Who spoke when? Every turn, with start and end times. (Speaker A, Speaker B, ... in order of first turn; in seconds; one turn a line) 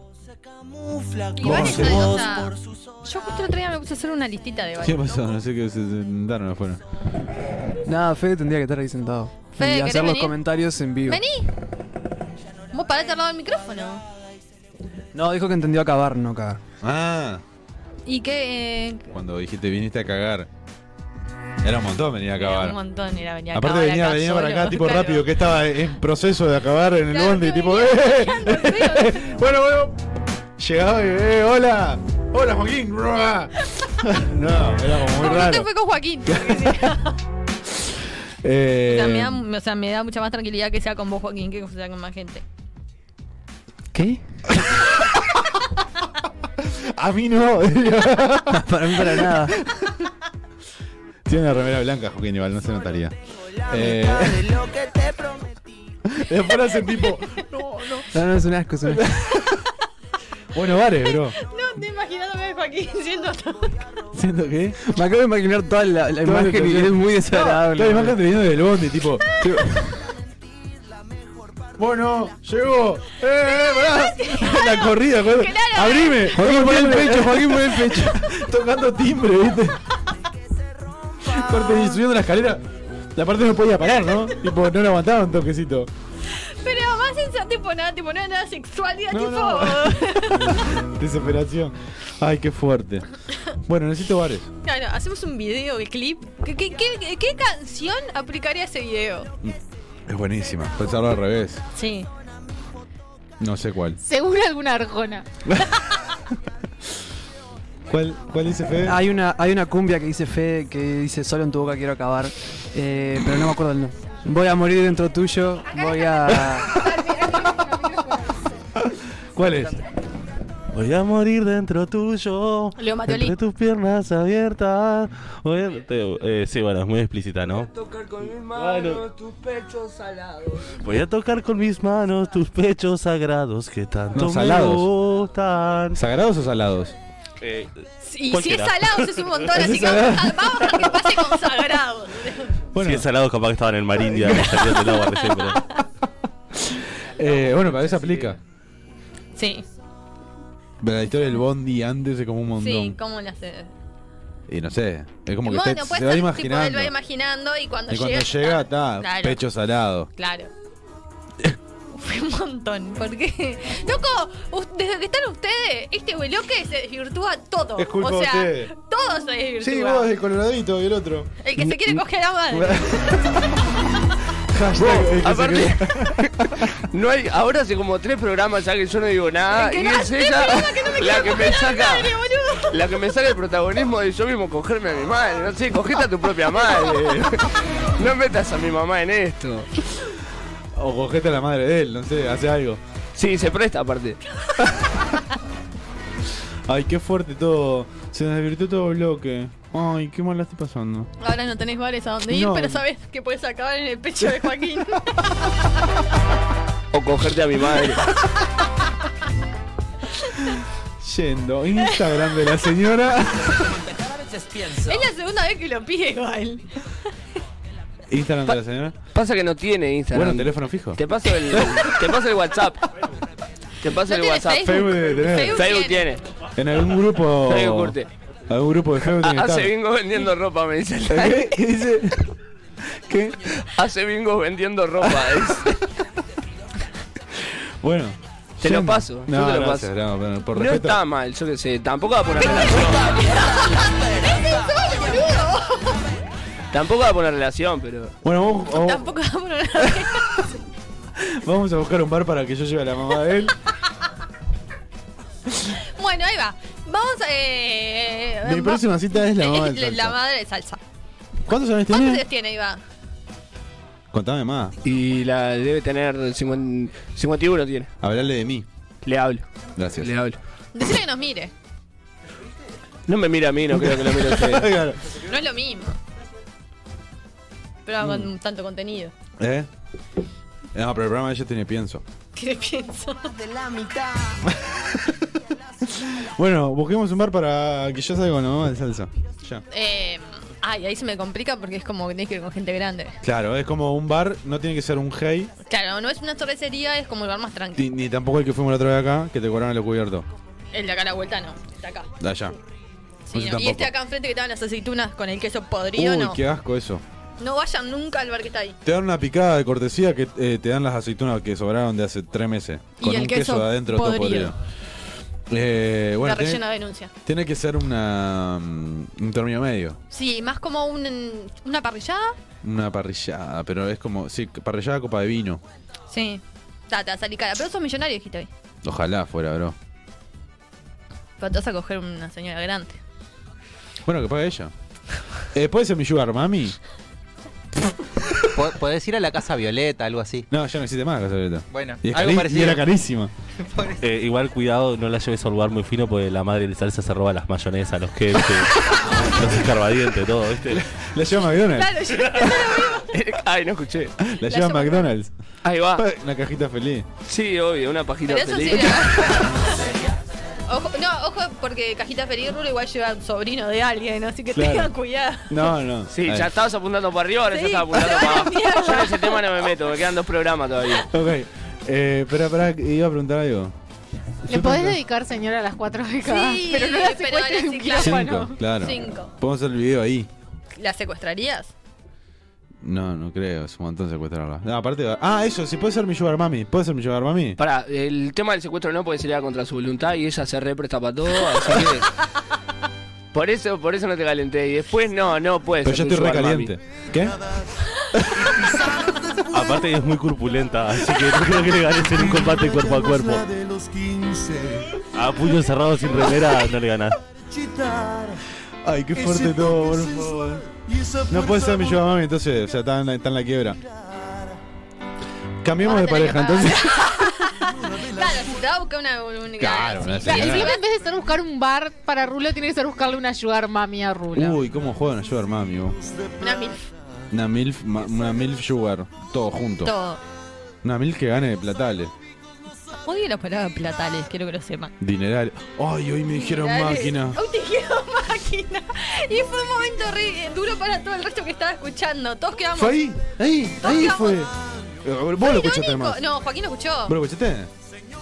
Speaker A: 0.6-2.8
Speaker B: 1.4-2.5
Speaker C: 1.4-2.2
Speaker B: 3.0-5.1
Speaker C: 4.8-6.8
Speaker D: 7.9-11.2
Speaker B: 9.6-10.4
Speaker B: 11.1-11.5
Speaker B: 12.7-14.0
Speaker D: 15.1-16.6
Speaker C: 16.8-17.4
Speaker B: 18.1-19.1
Speaker C: 19.1-20.5
Speaker C: 21.6-22.8
Speaker B: 22.4-25.3
Speaker C: 23.5-30.0
Speaker B: 27.1-29.2
Speaker C: 30.6-35.7
Speaker B: 35.2-37.2
Speaker C: 36.3-36.9
Speaker C: 38.4-39.4
Speaker B: 38.9-42.4
Speaker D: 43.9-44.2
Speaker C: 44.7-45.0
Speaker C: 46.6-50.1
Speaker D: 48.5-49.6
Speaker C: 51.3-53.1
Speaker C: 53.7-54.5
Speaker A: 53.7-55.6
Speaker C: 56.1-58.1
Speaker D: 58.1-59.2
Speaker C: 58.9-59.6
Speaker C: 60.5-61.4
Speaker B: 61.4-63.9
Speaker C: 64.1-64.8
Speaker D: 64.9-68.2
Speaker C: 66.2-69.3
Speaker D: 69.4-69.7
Speaker C: 71.8-79.8
Speaker B: 73.4-76.4
Speaker D: 76.3-78.2
Speaker C: 81.3-82.6
Speaker C: 83.2-85.9
Speaker B: 86.3-90.7
Speaker C: 89.1-93.1
Speaker C: 93.6-94.5
Speaker B: 94.7-99.3
Speaker C: 100.1-101.6
Speaker B: 101.7-102.1
Speaker C: 103.4-104.0
Speaker E: 104.0-105.3
Speaker C: 107.9-109.0
Speaker D: 108.8-116.8
Speaker E: 117.0-118.3
Speaker C: 118.8-119.8
Speaker F: 120.7-127.7
Speaker B: 122.8-123.4
Speaker G: 127.8-130.7
Speaker F: 128.6-129.0
Speaker F: 130.7-136.0
Speaker C: 134.1-134.9
Speaker C: 135.9-136.9
Speaker F: 137.4-137.7
Speaker B: 138.0-142.6
Speaker F: 138.3-139.5
Speaker C: 139.5-140.6
Speaker C: 142.7-143.1
Speaker F: 142.8-145.7
Speaker C: 144.0-144.8
Speaker B: 145.1-145.8
Speaker C: 146.6-148.4
Speaker B: 149.3-149.7
Speaker C: 150.8-153.0
Speaker B: 152.6-153.7
Speaker C: 154.5-156.9
Speaker B: 155.4-159.4
Speaker C: 157.9-160.1
Speaker B: 160.2-160.5
Speaker B: 161.9-170.1
Speaker C: 167.8-168.7
Speaker C: 169.6-173.3
Speaker B: 171.4-173.0
Speaker C: 174.5-176.7
Speaker G: 174.8-176.3
Speaker G: 176.9-182.2
Speaker B: 179.5-182.8
Speaker G: 182.7-189.7
Speaker C: 190.8-192.8
Speaker G: 193.2-194.2
Speaker C: 194.6-195.0
Speaker C: 196.7-201.1
Speaker B: 201.2-205.5
Speaker C: 202.3-202.8
Speaker G: 206.9-208.1
Speaker C: 211.0-213.8
Speaker B: 211.8-212.2
Speaker B: 214.8-216.7
Speaker C: 218.1-219.0
Speaker G: 219.1-222.8
Speaker C: 220.1-221.0
Speaker G: 223.8-224.8
Speaker B: 224.1-226.1
Speaker C: 224.6-225.7
Speaker G: 225.5-226.2
Speaker C: 226.6-228.0
Speaker G: 227.3-228.1
Speaker C: 228.5-229.7
Speaker G: 229.0-231.5
Speaker C: 231.1-232.3
Speaker C: 233.0-233.6
Speaker G: 233.7-235.7
Speaker C: 237.8-241.0
Speaker G: 238.6-239.9
Speaker G: 240.5-243.2
Speaker B: 243.3-243.6
Speaker B: 244.2-246.0
Speaker G: 246.7-248.2
Speaker C: 248.2-249.1
Speaker B: 248.7-250.5
Speaker C: 251.2-253.5
Speaker B: 255.9-260.8
Speaker C: 258.4-260.2
Speaker C: 261.5-262.2
Speaker B: 261.9-262.8
Speaker C: 264.1-264.8
Speaker G: 264.8-267.9
Speaker C: 268.0-268.7
Speaker G: 269.1-269.5
Speaker C: 269.8-270.1
Speaker G: 270.0-270.4
Speaker B: 270.8-271.5
Speaker G: 273.1-274.7
Speaker C: 273.7-275.0
Speaker B: 275.3-276.0
Speaker B: 277.9-279.1
Speaker C: 278.0-278.3
Speaker C: 279.4-279.7
Speaker C: 280.7-282.0
Speaker B: 282.4-283.3
Speaker A: 283.2-284.5
Speaker C: 285.9-289.6
Speaker B: 289.7-293.2
Speaker C: 293.2-295.5
Speaker B: 295.7-297.9
Speaker C: 297.8-300.3
Speaker B: 300.7-302.1
Speaker C: 302.2-302.6
Speaker B: 303.3-306.4
Speaker C: 303.3-303.9
Speaker C: 305.9-307.0
Speaker B: 307.4-308.8
Speaker C: 308.9-314.6
Speaker B: 313.0-314.5
Speaker C: 315.5-316.6
Speaker B: 316.2-317.1
Speaker C: 317.2-320.0
Speaker B: 320.1-322.4
Speaker C: 322.6-325.6
Speaker B: 326.1-328.5
Speaker C: 328.8-329.8
Speaker B: 331.4-333.0
Speaker C: 334.1-334.7
Speaker C: 335.5-336.8
Speaker H: 338.5-340.5
Speaker C: 340.5-343.3
Speaker H: 341.7-342.8
Speaker H: 343.6-344.0
Speaker F: 344.0-350.8
Speaker C: 350.7-352.6
Speaker B: 351.6-353.1
Speaker G: 353.0-354.1
Speaker C: 354.2-355.3
Speaker B: 354.4-355.1
Speaker G: 355.6-356.1
Speaker C: 356.0-357.1
Speaker G: 357.3-359.2
Speaker B: 358.3-359.8
Speaker B: 360.7-365.7
Speaker C: 364.5-364.9
Speaker C: 365.5-366.5
Speaker G: 366.1-371.1
Speaker B: 367.5-369.4
Speaker C: 371.1-373.8
Speaker E: 374.5-378.5
Speaker C: 374.5-375.0
Speaker B: 376.2-379.3
Speaker C: 378.0-380.3
Speaker B: 380.8-381.7
Speaker C: 382.8-387.6
Speaker G: 387.6-392.1
Speaker G: 393.3-396.7
Speaker C: 395.8-397.4
Speaker I: 397.1-397.7
Speaker I: 398.4-399.9
Speaker F: 399.5-403.4
Speaker I: 401.0-405.0
Speaker F: 405.1-407.2
Speaker I: 407.5-408.4
Speaker C: 408.8-410.6
Speaker I: 409.1-412.1
Speaker C: 411.3-413.8
Speaker C: 415.6-417.1
Speaker B: 415.8-420.8
Speaker I: 417.6-418.7
Speaker C: 419.6-420.8
Speaker E: 420.2-424.6
Speaker C: 424.3-426.0
Speaker I: 426.0-426.7
Speaker B: 426.4-426.8
Speaker C: 427.3-429.9
Speaker B: 429.8-430.2
Speaker C: 430.8-432.1
Speaker B: 433.1-434.9
Speaker C: 435.0-437.4
Speaker B: 436.3-443.0
Speaker C: 442.8-444.5
Speaker B: 443.8-444.5
Speaker C: 445.0-446.2
Speaker B: 445.4-447.1
Speaker C: 447.1-447.7